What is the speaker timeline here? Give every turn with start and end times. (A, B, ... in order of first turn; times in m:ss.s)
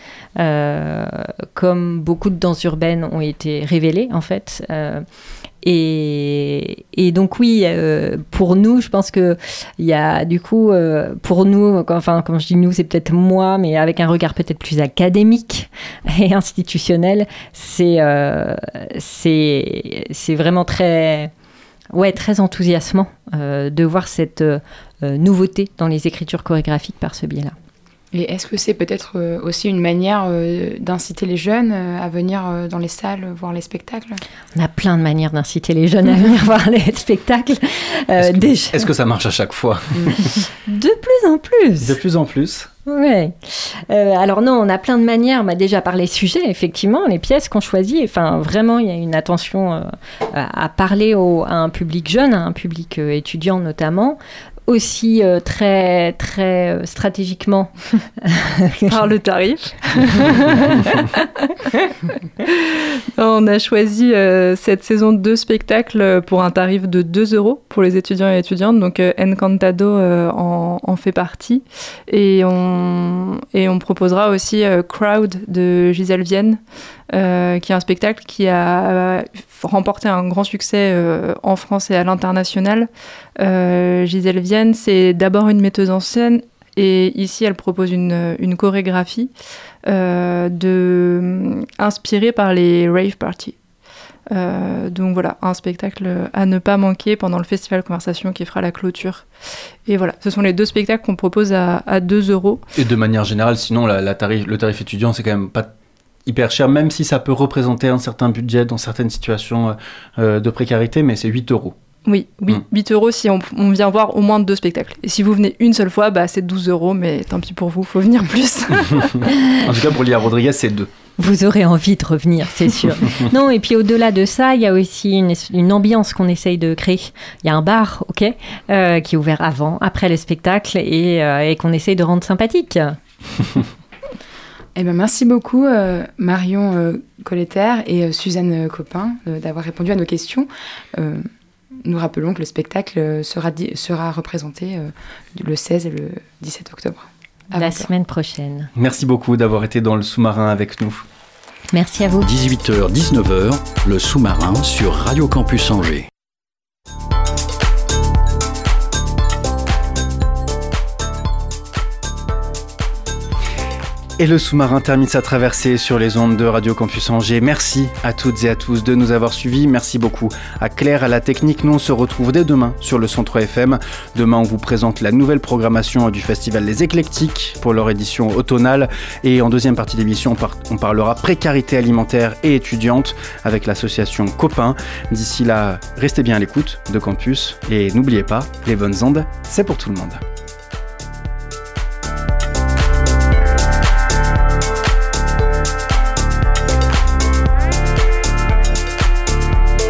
0:00.4-0:05.0 A
0:05.6-0:21.3 A
0:21.9-0:27.5 A
0:28.1-0:34.2 B
0:34.5-0:38.9 A
0:38.2-0:40.4 C
0:40.4-0:42.0 A
0:41.8-0:42.7 C
0:42.8-0:58.9 A
0:58.8-1:16.6 D
1:17.1-1:29.3 D
1:29.8-1:33.6 D
1:34.3-1:39.3 D
1:39.8-1:42.6 D
1:42.7-1:45.7 C
1:46.2-1:51.8 C
1:52.0-1:59.2 D
1:59.6-2:00.9 C
2:01.2-2:13.0 A
2:14.8-2:21.3 B
2:21.8-2:27.9 B
2:27.5-2:28.7 A
2:28.8-2:31.0 C
2:31.7-2:32.3 A
2:32.2-2:36.1 E
2:44.2-3:10.2 C